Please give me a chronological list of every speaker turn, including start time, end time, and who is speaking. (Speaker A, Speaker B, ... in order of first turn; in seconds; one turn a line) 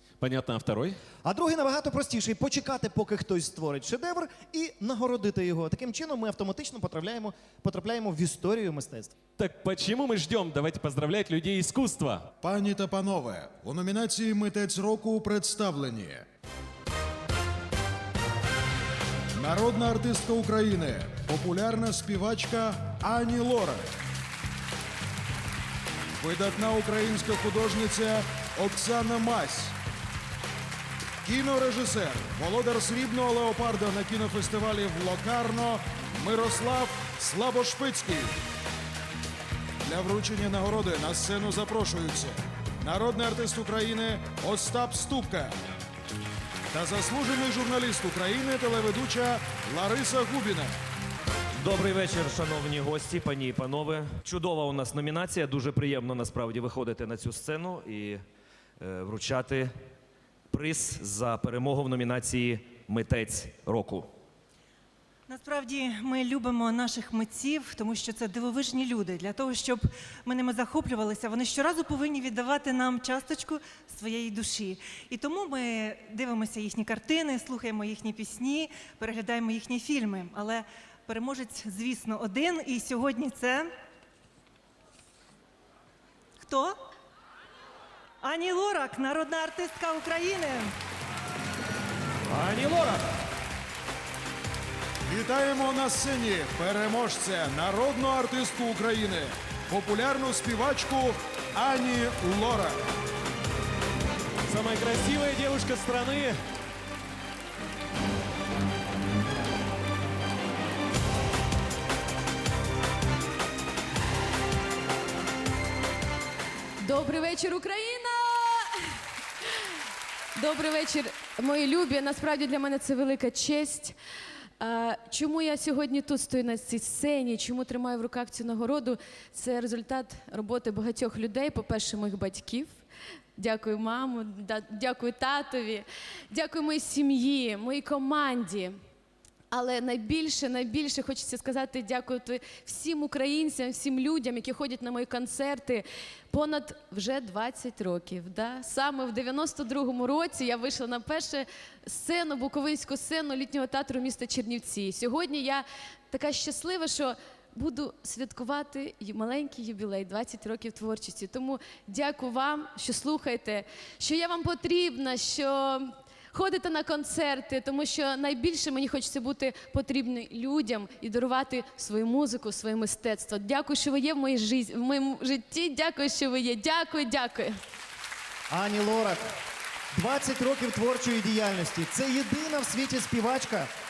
Speaker A: 0.2-1.0
Speaker B: 1.2-9.1
Speaker A: 9.4-12.3
Speaker C: 12.4-16.2
Speaker C: 19.3-23.9
Speaker C: 26.2-29.7
Speaker C: 31.2-38.4
Speaker C: 39.9-45.5
Speaker C: 46.7-50.7
Speaker D: 51.6-58.2
Speaker D: 58.8-59.7
Speaker D: 60.5-64.1
Speaker E: 65.3-83.7
Speaker E: 86.4-86.8
Speaker E: 88.2-90.7
Speaker D: 92.3-93.0
Speaker C: 95.1-102.8
Speaker A: 104.5-106.4
Speaker F: 116.8-119.0
Speaker F: 120.4-124.0
Speaker F: 124.6-132.8
Speaker F: 133.4-138.8
Speaker F: 139.5-177.5
Speaker B: 178.5-179.2
Speaker B: 179.9-183.7